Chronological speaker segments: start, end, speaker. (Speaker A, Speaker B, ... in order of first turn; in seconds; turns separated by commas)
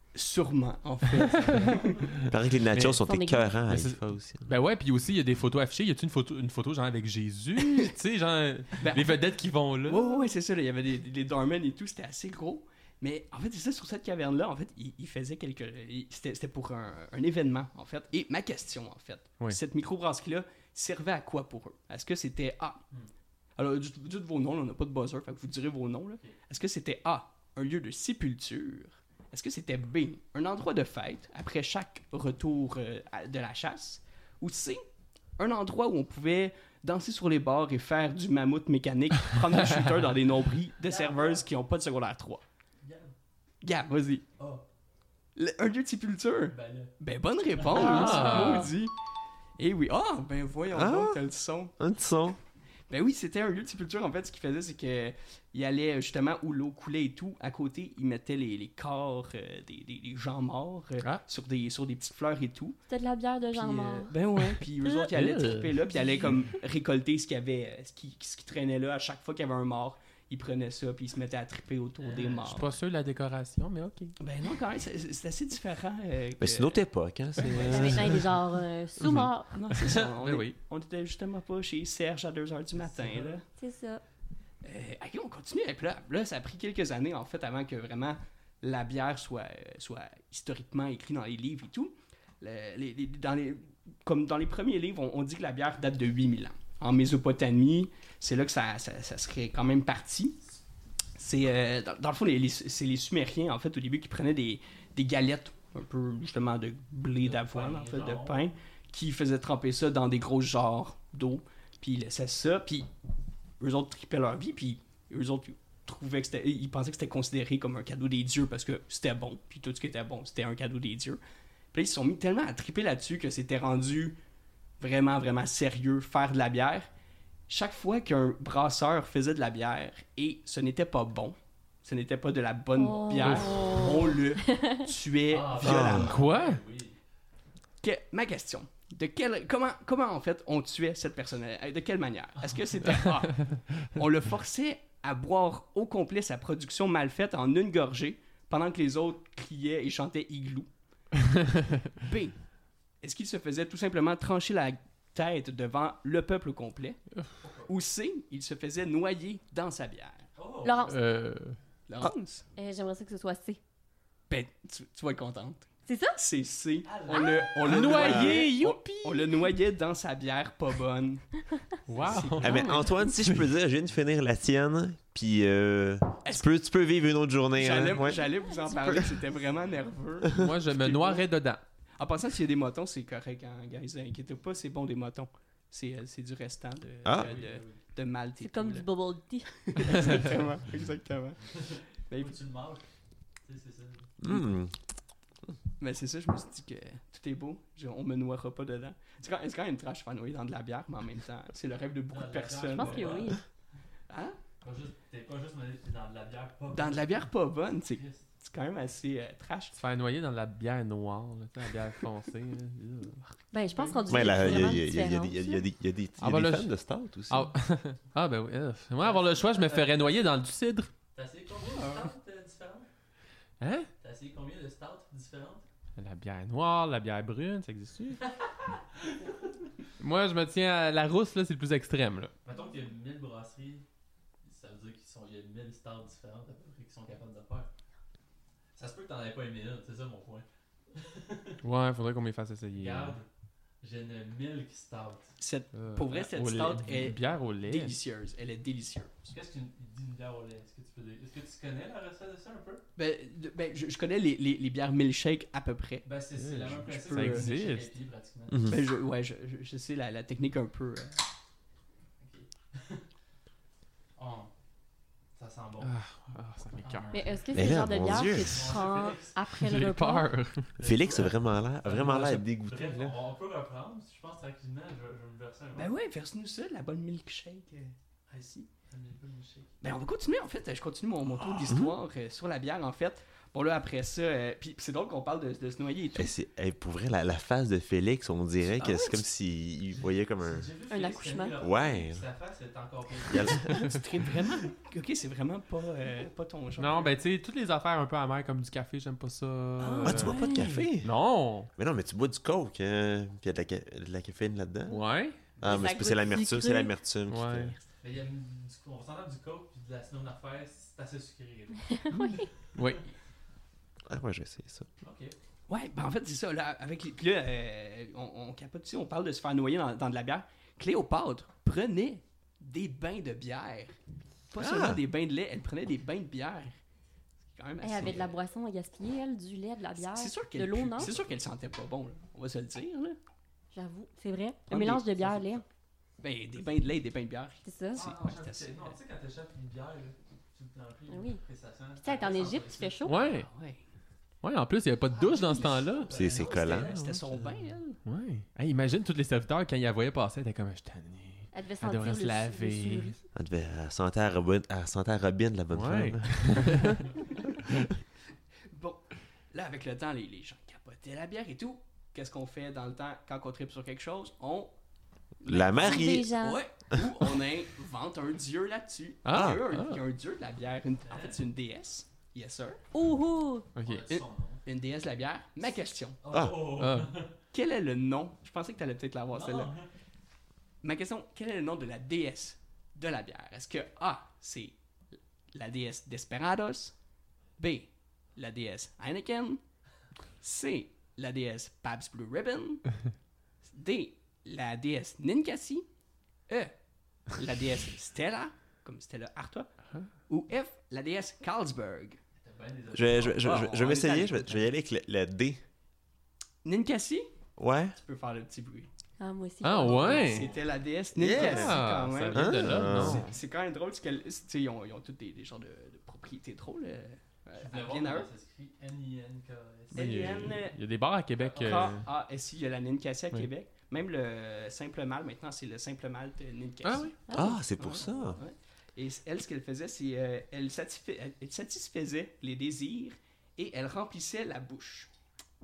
Speaker A: 0.1-2.1, Speaker B: 1.2-1.8, Speaker C: 1.6-2.0, Speaker D: 2.3-4.5, Speaker B: 2.7-3.0, Speaker E: 3.0-3.5, Speaker B: 3.7-10.2, Speaker A: 8.8-9.2, Speaker A: 9.8-22.8, Speaker A: 23.6-34.9, Speaker A: 35.4-42.4, Speaker C: 40.8-41.5, Speaker C: 42.8-43.1, Speaker A: 43.6-44.2, Speaker C: 44.4-44.6, Speaker A: 45.4-48.9, Speaker C: 46.5-46.9, Speaker C: 47.6-48.1, Speaker B: 47.8-48.7, Speaker E: 47.8-48.7, Speaker A: 49.6-51.7, Speaker D: 50.7-51.2, Speaker D: 51.8-52.4, Speaker A: 52.9-62.8, Speaker E: 62.9-64.1, Speaker A: 63.5-72.7, Speaker B: 65.1-65.7, Speaker B: 72.2-74.2, Speaker A: 74.2-76.8, Speaker D: 76.4-78.2, Speaker A: 77.4-78.1, Speaker E: 77.6-79.5, Speaker B: 79.0-80.6, Speaker A: 79.5-83.5, Speaker C: 83.0-83.3, Speaker E: 83.6-84.0, Speaker A: 84.6-100.4, Speaker A: 101.2-112.9, Speaker C: 107.2-108.5, Speaker A: 113.6-121.2, Speaker A: 121.7-124.2, Speaker A: 124.8-126.9, Speaker A: 127.5-136.2, Speaker E: 132.8-134.8, Speaker B: 133.2-133.5, Speaker C: 135.3-137.0, Speaker D: 135.6-136.1, Speaker B: 136.0-136.6, Speaker A: 137.8-150.7, Speaker B: 142.9-143.6, Speaker B: 151.2-151.6, Speaker A: 152.0-152.5, Speaker A: 153.0-157.0, Speaker C: 157.4-157.7, Speaker A: 157.7-160.3, Speaker C: 160.4-160.9, Speaker E: 160.6-161.0, Speaker B: 160.8-161.6, Speaker A: 161.9-162.4, Speaker E: 162.6-163.6, Speaker A: 164.3-172.9, Speaker E: 165.9-166.2, Speaker C: 166.8-167.9, Speaker B: 167.6-169.4, Speaker D: 168.0-168.4, Speaker B: 171.9-172.8, Speaker D: 172.4-178.3, Speaker A: 177.6-181.3, Speaker E: 178.1-179.1, Speaker D: 178.8-179.1, Speaker B: 180.3-181.6, Speaker A: 182.0-188.9, Speaker D: 187.0-187.3, Speaker C: 187.1-187.8, Speaker E: 188.4-189.5, Speaker A: 189.6-192.4, Speaker C: 190.0-190.3, Speaker C: 191.6-192.8, Speaker C: 193.5-194.1, Speaker D: 194.2-194.8, Speaker A: 195.8-203.2, Speaker C: 202.1-203.3, Speaker E: 202.7-203.4, Speaker A: 204.1-204.4, Speaker C: 204.6-207.2, Speaker A: 206.7-209.8, Speaker C: 207.9-208.2, Speaker B: 209.8-213.2, Speaker E: 213.5-215.6, Speaker D: 214.1-217.5, Speaker B: 216.2-216.7, Speaker B: 217.3-220.9, Speaker C: 219.0-220.2, Speaker C: 221.2-222.9, Speaker A: 221.8-222.0, Speaker B: 223.6-223.9, Speaker C: 224.0-225.6, Speaker B: 226.0-228.2, Speaker C: 228.2-229.7, Speaker B: 230.0-232.3, Speaker C: 232.4-233.8, Speaker C: 234.4-237.7, Speaker C: 238.8-241.6, Speaker B: 241.6-243.2, Speaker C: 242.8-243.3, Speaker C: 243.8-245.3, Speaker A: 245.4-249.3, Speaker B: 245.7-248.0, Speaker C: 249.3-252.8, Speaker A: 253.0-256.1, Speaker C: 256.1-258.8, Speaker B: 256.4-257.9, Speaker A: 256.9-257.5, Speaker D: 258.5-258.8, Speaker A: 258.7-261.2, Speaker C: 262.2-263.0, Speaker C: 264.2-264.5, Speaker C: 265.4-266.0, Speaker B: 265.8-267.2, Speaker C: 266.8-269.4, Speaker E: 267.1-270.3, Speaker D: 267.5-268.8, Speaker B: 269.5-270.8, Speaker C: 270.8-275.9, Speaker D: 270.8-273.2, Speaker A: 275.8-277.9, Speaker C: 278.3-279.8, Speaker A: 279.8-286.3, Speaker D: 281.7-282.0, Speaker D: 286.1-290.7, Speaker A: 288.7-289.2, Speaker C: 289.9-293.9, Speaker E: 290.9-291.6, Speaker D: 291.6-292.2, Speaker D: 293.3-293.9, Speaker A: 293.8-297.2, Speaker B: 296.8-301.7, Speaker A: 299.8-300.8, Speaker D: 300.0-301.1, Speaker D: 301.8-305.0, Speaker B: 304.9-305.4, Speaker D: 305.6-307.8, Speaker E: 305.6-306.9, Speaker B: 307.3-307.8, Speaker C: 308.0-313.0, Speaker E: 311.9-312.5, Speaker B: 312.8-313.1, Speaker D: 314.1-314.9, Speaker C: 315.0-315.3, Speaker A: 315.7-324.0, Speaker A: 324.5-326.8, Speaker D: 324.6-325.0, Speaker A: 327.4-328.4, Speaker E: 327.8-331.1, Speaker A: 330.0-333.2, Speaker E: 333.7-335.6, Speaker A: 334.7-335.6, Speaker A: 336.2-339.0, Speaker E: 337.6-338.1, Speaker C: 337.9-343.5, Speaker E: 341.1-341.4, Speaker E: 342.0-343.3, Speaker B: 343.1-343.5, Speaker A: 343.3-343.8, Speaker B: 344.4-346.3, Speaker A: 345.4-348.0, Speaker C: 345.6-347.2, Speaker D: 346.1-346.9, Speaker B: 348.0-353.1, Speaker E: 351.5-353.2, Speaker D: 353.3-356.9, Speaker B: 355.7-357.1, Speaker A: 358.7-364.7, Speaker A: 365.4-372.8, Speaker D: 365.4-366.3, Speaker E: 365.5-366.6, Speaker B: 369.2-370.0, Speaker D: 369.3-369.6, Speaker C: 371.1-371.4, Speaker E: 372.9-373.7, Speaker B: 373.8-374.2, Speaker C: 373.8-374.6, Speaker A: 374.6-376.2, Speaker C: 376.2-377.3, Speaker D: 376.3-376.7, Speaker B: 376.8-377.1, Speaker A: 377.5-379.7, Speaker C: 379.3-379.9, Speaker A: 380.8-384.8, Speaker A: 385.5-387.0, Speaker A: 387.6-389.6, Speaker A: 390.4-392.9, Speaker A: 393.6-395.9, Speaker A: 396.5-396.8, Speaker A: 397.3-399.7, Speaker A: 400.3-402.2, Speaker C: 402.4-403.6, Speaker D: 402.9-405.6, Speaker A: 403.4-404.6, Speaker A: 406.6-407.3, Speaker D: 407.6-408.0, Speaker A: 408.0-408.9, Speaker E: 409.2-410.5, Speaker B: 409.6-410.5, Speaker A: 409.8-418.3, Speaker C: 410.1-410.6, Speaker D: 411.1-413.3, Speaker B: 411.3-413.3, Speaker C: 417.6-420.5, Speaker A: 419.9-420.8, Speaker B: 419.9-422.1, Speaker A: 421.4-435.1, Speaker C: 421.6-421.9, Speaker B: 426.8-427.2, Speaker E: 427.3-427.6, Speaker D: 427.3-428.4, Speaker C: 427.8-428.3